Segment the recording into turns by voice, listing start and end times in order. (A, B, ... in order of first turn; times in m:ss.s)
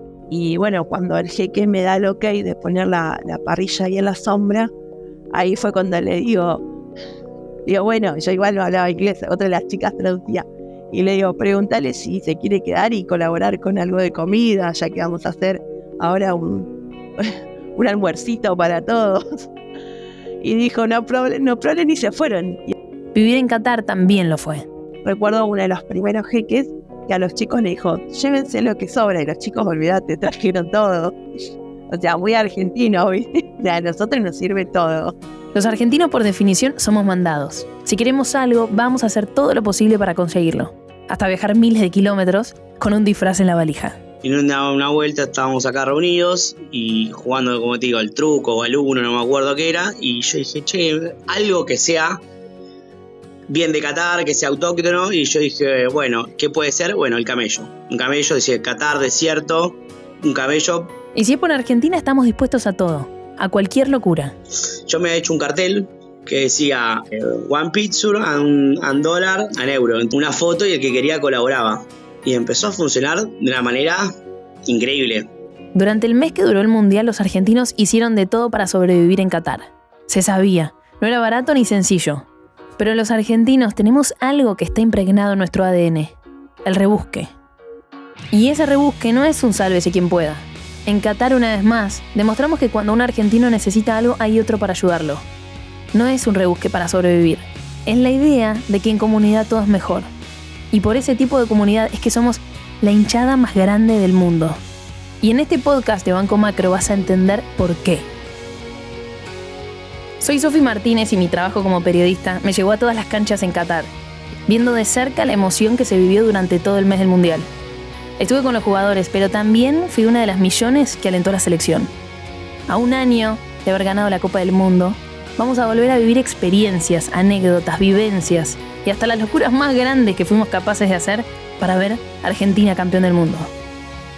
0:00.3-0:04.7 A
0:05.3-0:06.6 A
0:07.6-0:19.2 A
0:20.4-0:22.7 A
0:23.1-0:24.6 B
0:25.0-0:31.2 A
0:31.9-0:35.2 A
0:35.5-0:44.0 B
0:44.2-0:52.2 C
0:53.5-1:00.9 C
1:01.1-1:04.3 B
1:04.9-1:14.1 C
1:14.7-1:15.3 C
1:15.7-1:22.2 B
1:22.8-1:27.3 B
1:28.3-1:35.2 B
1:35.9-1:40.1 B
1:40.7-1:44.6 B
1:45.2-1:48.1 B
1:50.2-1:53.9 B
1:54.5-1:57.5 B
1:58.2-2:01.9 B
2:02.7-2:13.5 B